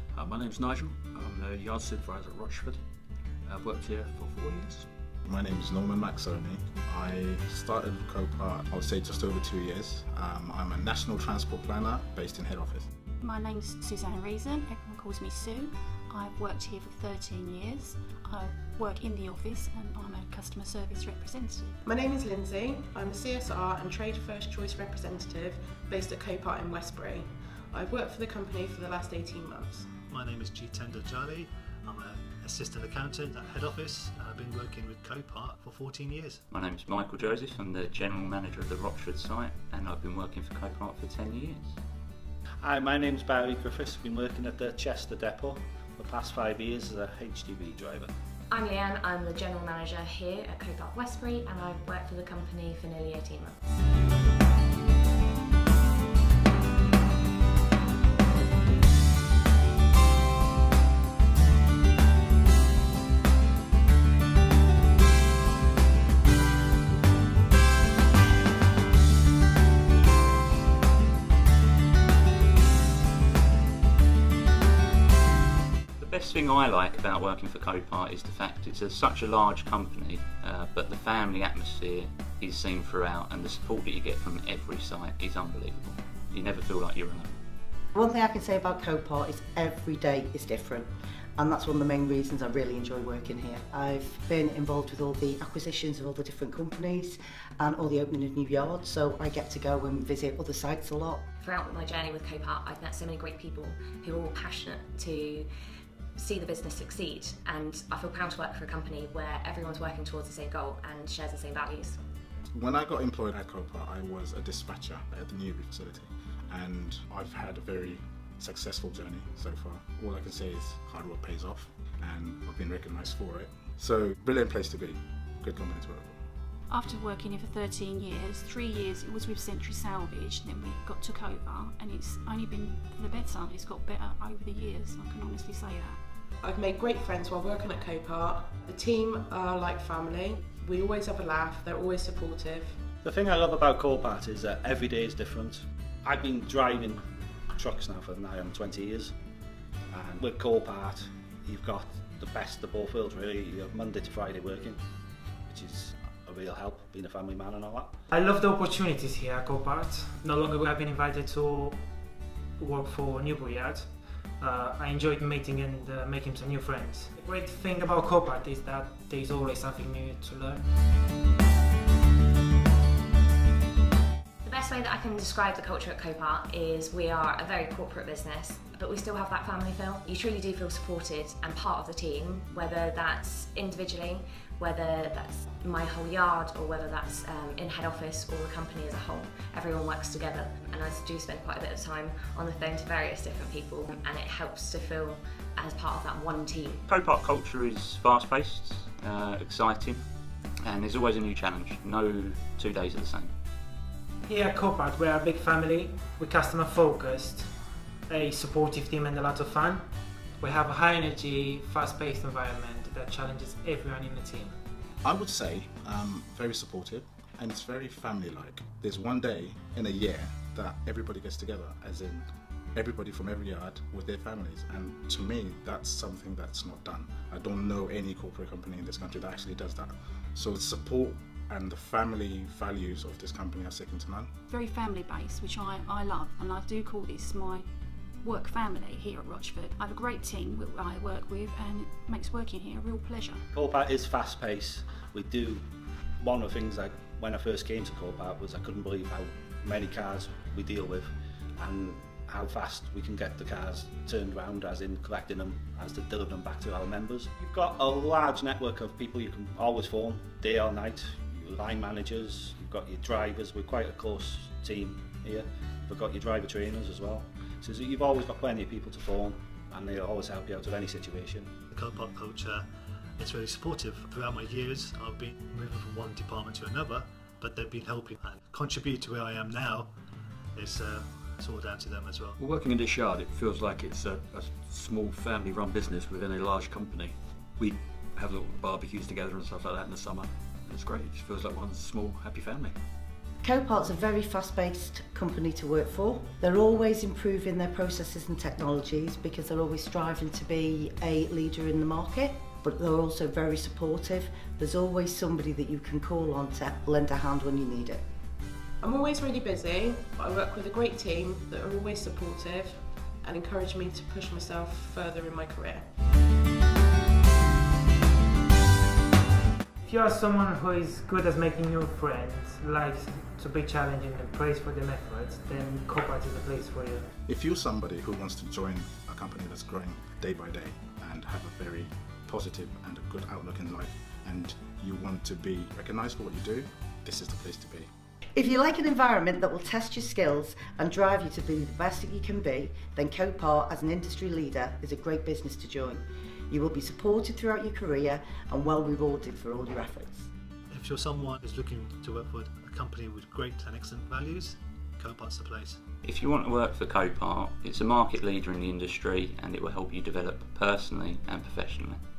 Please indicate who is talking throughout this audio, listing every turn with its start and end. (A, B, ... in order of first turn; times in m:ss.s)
0:00.1-0:02.8 A
0:03.4-0:04.9 A
0:05.2-0:12.9 B
0:13.2-0:21.8 C
0:21.8-0:29.9 D
0:30.0-0:36.4 E
0:36.5-0:41.8 F
0:42.6-0:48.1 G
0:48.5-0:53.6 H
1:16.0-1:27.3 F
1:27.9-1:41.2 I
1:41.4-1:45.5 H
1:46.2-1:52.0 H
1:52.6-2:06.2 B
2:06.7-2:16.0 C
2:16.4-2:22.8 D
2:23.0-2:27.0 G
2:27.6-2:29.1 G
2:29.9-2:34.8 G
2:35.5-2:37.9 G
2:38.1-2:50.7 J
2:54.4-3:16.8 H
3:16.9-3:20.0 F
3:20.6-3:23.3 F
3:24.2-3:34.6 J
3:35.0-3:54.3 B
3:54.5-3:57.7 C
3:58.2-4:03.5 C
4:03.5-4:05.6 G
4:06.2-4:31.6 G
4:31.7-4:39.9 E
4:40.6-4:42.4 E
4:42.4-4:52.8 A
4:53.4-5:08.0 I
5:08.8-5:15.9 D
5:19.8-5:27.1 J
5:27.3-5:37.9 B
5:38.4-5:50.3 I
5:50.7-5:55.8 E
5:56.0-6:02.0 F